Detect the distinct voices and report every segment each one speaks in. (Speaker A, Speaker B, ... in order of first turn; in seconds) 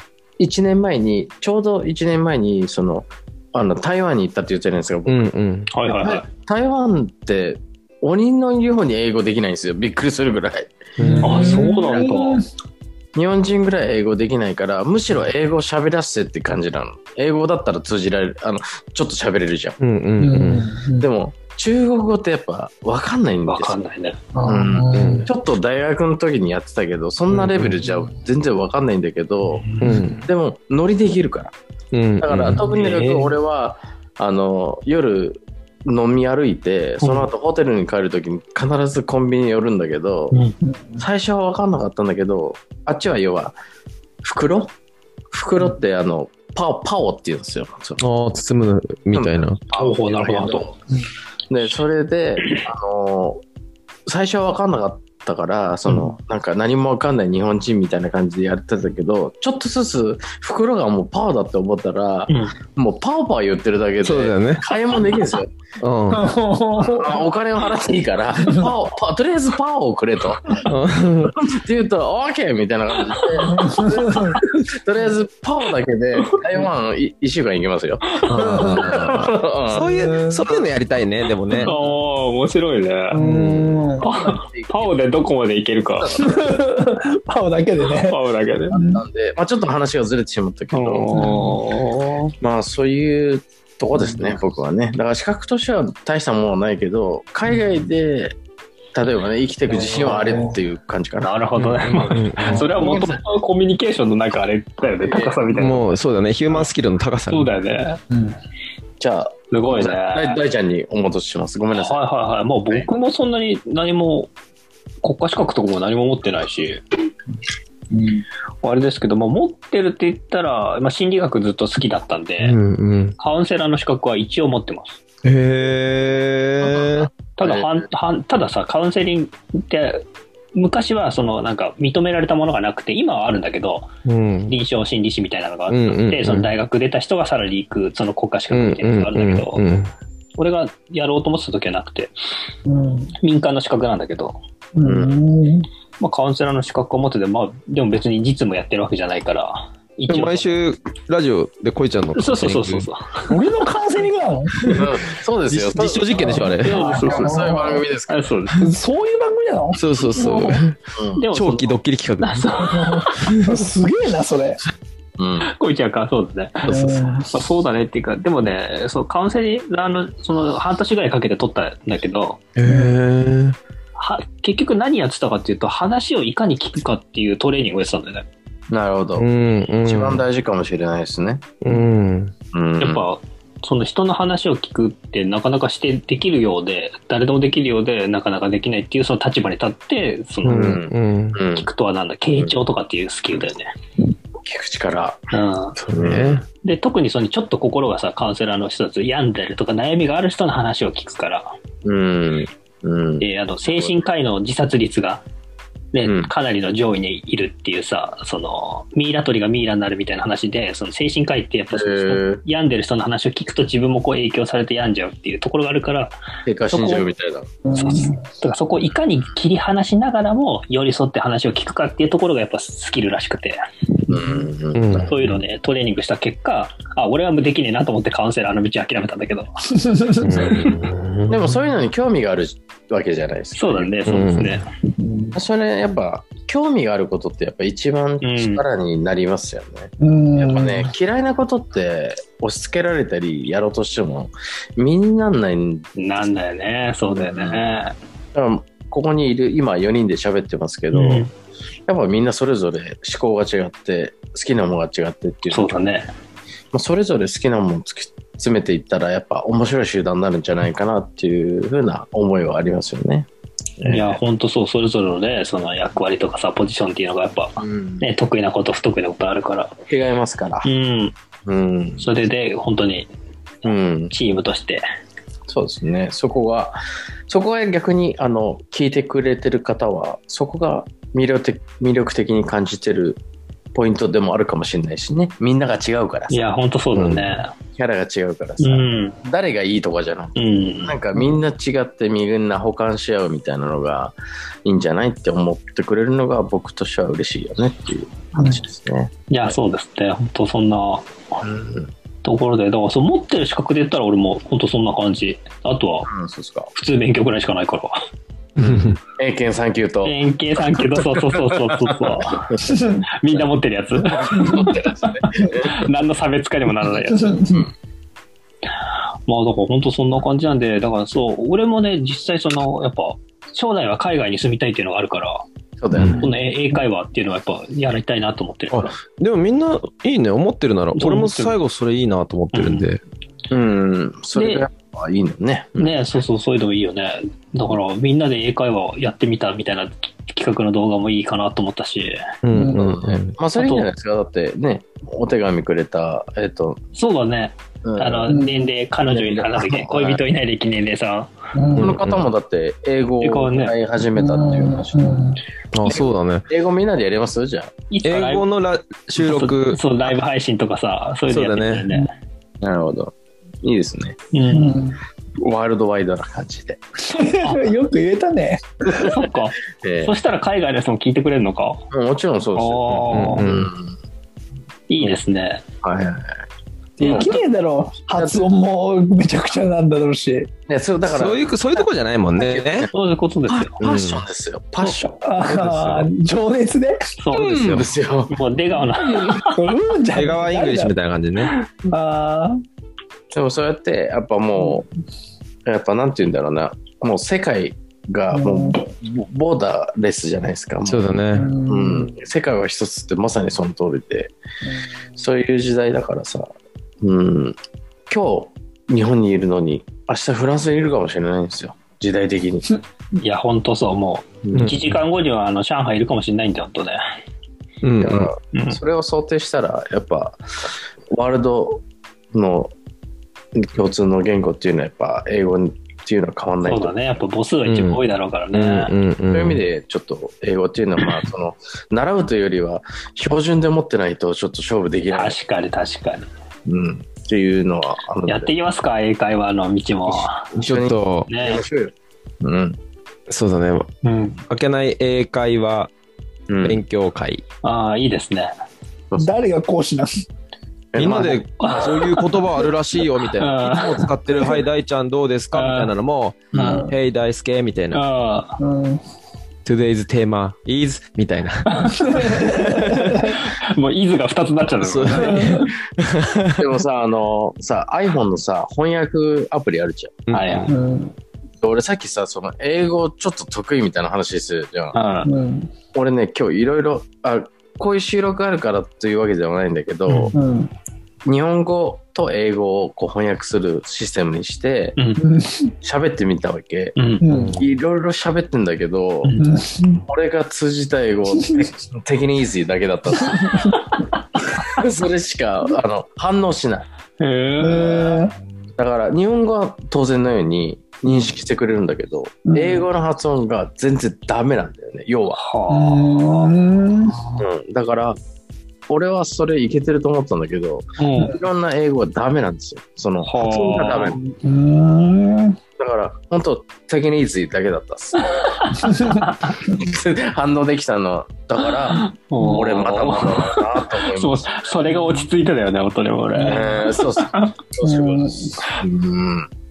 Speaker A: 0.4-5.3, 5.8-10.8, 11.3-12.1, 13.1-19.8, 21.0-23.8, 24.4-29.7, 30.2-31.5, 32.2-40.4, 41.0-43.6, 44.2-44.7, 45.3-48.0, 49.1-50.7, 51.5-53.4, 54.1-65.5, 66.8-70.7, 71.2-79.9, 84.0-85.0, 85.9-86.5, 88.7-91.2, 92.4-98.4, 98.9-101.3, 102.0-103.2, 105.0-105.4, 109.0-112.0, 126.8-127.7, 144.8-145.2, 154.7-158.3, 160.9-161.5, 165.2-165.5, 178.7-179.3, 179.8-181.6, 182.5-183.1, 190.4-191.7, 194.4-195.2, 195.8-196.4, 201.8-203.9, 206.0-206.3, 211.7-212.4, 216.4-217.5, 224.1-225.1, 231.3-234.2, 235.3-245.9, 247.1-247.6, 248.3-251.3, 251.9-255.8, 256.7-263.3, 263.8-264.2, 267.6-268.0, 269.9-270.7, 271.4-272.0, 273.6-274.1, 275.5-283.2, 283.7-286.4, 287.8-299.6, 301.4-301.9, 306.1-306.7, 308.6-315.8, 325.8-326.3, 333.5-335.9, 342.7-346.8, 347.8-348.4, 349.1-350.2, 351.8-355.2, 355.9-357.7, 362.6-364.2, 365.4-366.8, 368.9-369.1, 369.7-370.1, 371.9-373.9, 375.8-376.4, 377.0-377.3, 378.1-378.5, 380.7-381.5, 382.4-382.9, 383.5-386.1, 387.3-389.5, 393.3-394.9, 395.6-404.3, 405.1-406.5, 407.0-407.6, 408.1-412.7, 414.4-414.8, 418.0-420.4, 421.1-422.7, 423.5-426.9, 429.3-435.4, 436.7-438.5, 440.1-442.8, 446.5-446.8, 450.9-451.9, 456.5-456.8, 466.6-470.2, 471.6-474.9, 475.9-480.4, 481.2-484.9, 485.8-486.9, 487.5-489.3, 490.1-493.8, 494.6-496.9, 498.8-505.4, 507.4-508.2, 508.9-514.2, 515.8-518.9, 519.5-524.9, 526.4-529.5
Speaker B: 5.1-5.7, 11.0-11.6, 19.8-20.7, 24.9-25.3, 27.3-27.6, 29.8-30.2, 31.9-32.6, 48.0-49.6, 64.0-64.7, 65.8-66.3, 70.6-71.3, 78.3-81.7, 83.2-83.8, 102.0-102.7, 105.5-107.5, 122.4-123.2, 125.2-127.1, 134.0-134.5, 135.7-136.5, 138.5-139.9, 150.1-152.9, 155.5-156.8, 159.8-160.8, 161.3-163.7, 166.6-166.9, 172.6-173.6, 179.2-180.2, 181.6-182.3, 190.4-191.4, 195.9-196.4, 224.7-225.4, 230.2-231.5, 234.1-234.6, 286.9-287.3, 308.6-309.0, 328.7-333.0, 342.4-343.4, 351.8-352.2, 355.7-356.4, 358.0-359.8, 361.3-361.9, 373.1-373.7, 381.0-382.9, 383.8-384.2, 387.6-387.9, 390.1-391.5, 400.8-401.5, 414.5-414.8, 417.8-418.3, 427.6-428.0, 428.5-429.6, 440.6-441.3, 443.3-443.9, 444.5-445.9, 446.6-447.4, 450.9-458.0, 459.6-463.3, 464.8-466.6, 470.3-470.7, 487.3-487.6
Speaker C: 5.7-6.3, 11.2-12.4, 23.5-24.2, 29.6-30.0, 32.5-33.3, 37.0-37.3, 40.3-40.5, 49.7-50.7, 62.3-62.5, 81.6-83.2, 84.0-86.2, 87.9-88.8, 90.7-92.3, 99.8-100.1, 101.2-105.9, 107.3-108.0, 109.5-110.4, 111.7-114.3, 115.0-116.8, 118.6-122.5, 123.2-125.0, 127.4-130.0, 130.5-133.9, 134.5-139.6, 140.4-142.1, 143.2-144.4, 146.0-150.5, 152.1-153.4, 156.6-158.6, 161.2-163.2, 165.4-172.4, 174.0-178.2, 182.8-190.8, 191.6-193.7, 195.3-195.8, 196.6-201.6, 203.2-205.2, 205.9-216.2, 216.7-217.1, 217.7-223.6, 225.0-229.7, 230.5-230.8, 233.6-234.7, 238.2-238.6, 246.0-247.9, 250.9-251.3, 255.5-256.1, 263.8-269.7, 270.6-271.1, 272.0-273.1, 273.7-274.8, 286.3-287.5, 288.6-289.2, 290.4-291.0, 299.3-301.1, 302.2-306.1, 306.7-308.0, 310.0-312.6, 313.2-317.6, 319.3-325.4, 326.2-329.0, 330.9-331.5, 332.5-332.9, 334.3-334.6, 335.8-342.3, 343.6-343.9, 346.9-351.3, 353.2-353.8, 357.9-358.4, 359.2-362.1, 364.3-364.8, 368.9-371.9, 372.6-373.4, 374.9-375.6, 377.0-377.4, 382.9-383.8, 387.2-389.5, 413.2-417.0, 418.5-418.8, 426.6-428.9, 435.1-436.3, 438.3-440.5, 441.3-441.6, 444.0-444.4, 447.6-448.5, 451.2-452.3, 453.4-454.1, 455.5-455.9, 456.5-456.9, 457.9-458.6, 461.8-462.5, 463.1-465.7, 470.3-470.7, 474.9-475.3, 485.0-485.2, 486.9-487.2, 497.2-498.2, 505.3-506.5, 511.0-511.4, 513.2-514.2, 518.6-519.4, 521.9-527.5
Speaker D: 11.0-12.4, 20.2-21.1, 24.3-25.3, 40.6-41.0, 66.1-67.2, 73.4-74.4, 78.4-78.8, 79.8-80.5, 83.1-84.0, 86.2-88.2, 88.7-89.0, 91.1-91.6, 99.8-100.5, 108.1-108.3, 117.9-118.2, 142.7-143.1, 144.7-145.7, 153.3-154.8, 156.1-157.8, 158.6-160.6, 162.6-164.6, 166.7-167.3, 172.6-172.9, 217.6-218.2, 229.7-230.4, 235.0-235.4, 240.0-240.9, 312.6-313.0, 314.3-314.7, 317.1-317.6, 342.5-342.8, 348.3-348.7, 351.5-351.9, 354.1-355.4, 364.5-365.0, 367.0-368.6, 377.0-380.5, 385.2-387.1, 389.4-390.9, 391.9-392.6, 398.3-398.8, 401.3-402.2, 449.2-450.1, 456.6-456.9, 458.6-459.0, 462.0-463.4, 465.2-465.7, 470.7-471.1, 475.2-475.7, 480.3-480.7, 485.2-485.7, 487.2-487.6, 489.4-490.0, 497.6-498.3, 502.5-502.8, 505.7-507.3, 514.2-515.6, 518.8-519.7, 527.8-528.6